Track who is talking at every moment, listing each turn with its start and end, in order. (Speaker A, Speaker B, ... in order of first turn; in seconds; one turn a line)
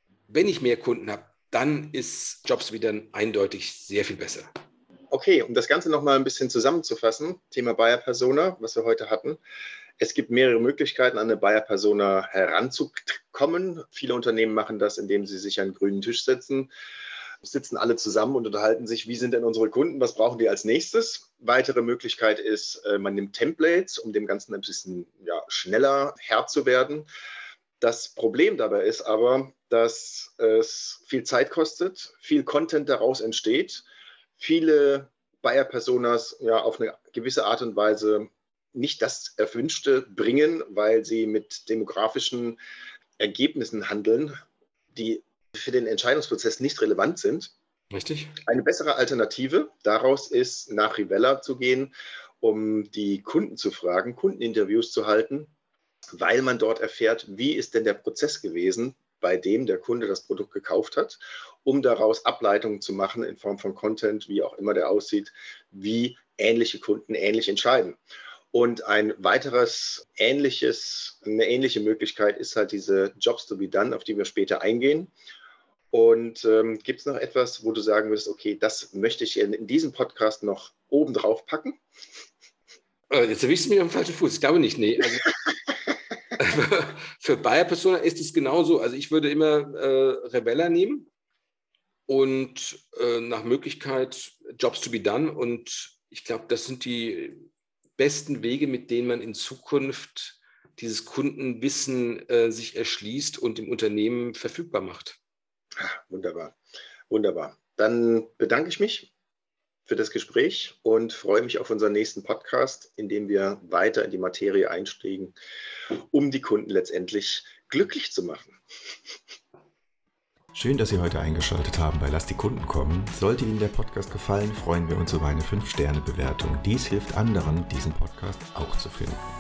Speaker A: 0.3-4.5
Speaker B: 5.1-9.4
Speaker C: 10.0-11.4
Speaker B: 10.0-16.7
Speaker C: 14.0-16.7
Speaker C: 17.4-19.9
Speaker B: 17.9-27.1
Speaker C: 20.6-24.6
Speaker C: 26.2-27.0
Speaker B: 27.8-33.9
Speaker C: 32.7-33.5
Speaker B: 34.4-42.6
Speaker C: 35.4-36.5
Speaker C: 37.2-37.5
Speaker B: 43.2-44.4
Speaker B: 44.9-47.5
Speaker A: 47.9-48.4
Speaker B: 48.5-55.5
Speaker B: 56.2-68.0
Speaker C: 58.7-61.2
Speaker C: 61.7-67.8
Speaker C: 68.5-69.6
Speaker B: 68.5-75.1
Speaker C: 70.2-70.6
Speaker C: 71.2-73.2
Speaker B: 75.9-81.8
Speaker C: 77.9-78.2
Speaker A: 83.1-85.4
Speaker A: 86.4-91.1
Speaker A: 92.1-97.5
Speaker A: 98.0-105.2
Speaker B: 105.8-106.6
Speaker B: 107.1-109.1
Speaker B: 109.9-115.4
Speaker B: 116.1-118.6
Speaker C: 120.5-129.2